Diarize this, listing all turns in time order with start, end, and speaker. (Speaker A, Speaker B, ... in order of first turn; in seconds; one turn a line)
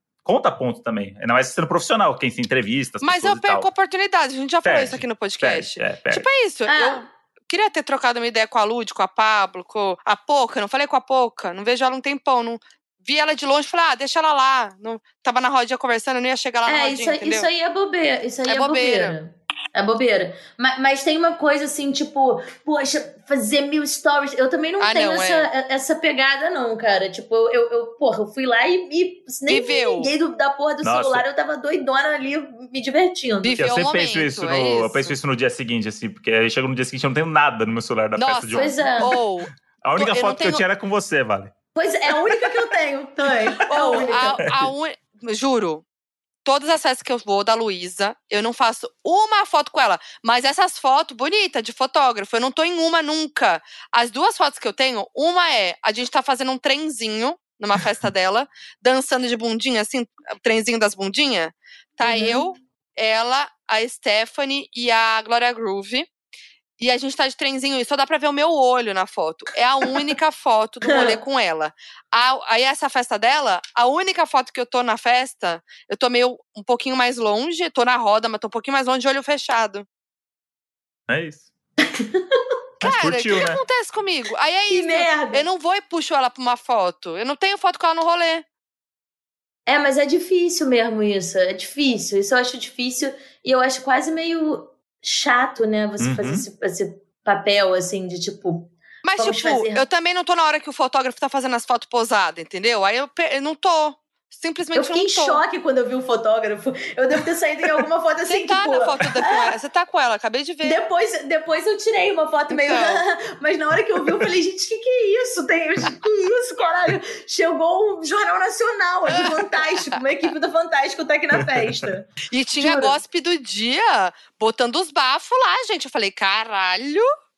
Speaker A: 0.2-3.7
Speaker B: 3.0-17.5
Speaker A: 4.6-6.2
Speaker C: 6.7-7.1
Speaker C: 16.6-33.6
Speaker B: 18.5-19.1
Speaker B: 24.8-25.5
Speaker B: 29.5-30.1
Speaker A: 30.8-31.2
Speaker B: 33.4-35.1
Speaker A: 33.6-39.2
Speaker B: 38.1-40.6
Speaker C: 38.5-39.1
Speaker A: 39.8-41.5
Speaker C: 41.7-44.4
Speaker A: 42.3-42.5
Speaker A: 43.5-44.7
Speaker B: 43.7-45.8
Speaker B: 46.4-66.1
Speaker C: 62.0-62.5
Speaker B: 66.8-79.8
Speaker C: 70.8-71.2
Speaker A: 81.1-81.5
Speaker C: 81.8-82.4
Speaker A: 82.8-83.6
Speaker B: 82.8-88.4
Speaker C: 84.7-85.4
Speaker C: 89.7-99.8
Speaker A: 96.0-96.5
Speaker B: 99.0-105.4
Speaker C: 104.7-109.5
Speaker B: 108.3-110.8
Speaker C: 110.6-123.0
Speaker B: 112.5-113.0
Speaker B: 119.1-120.0
Speaker A: 121.4-121.9
Speaker B: 122.3-127.0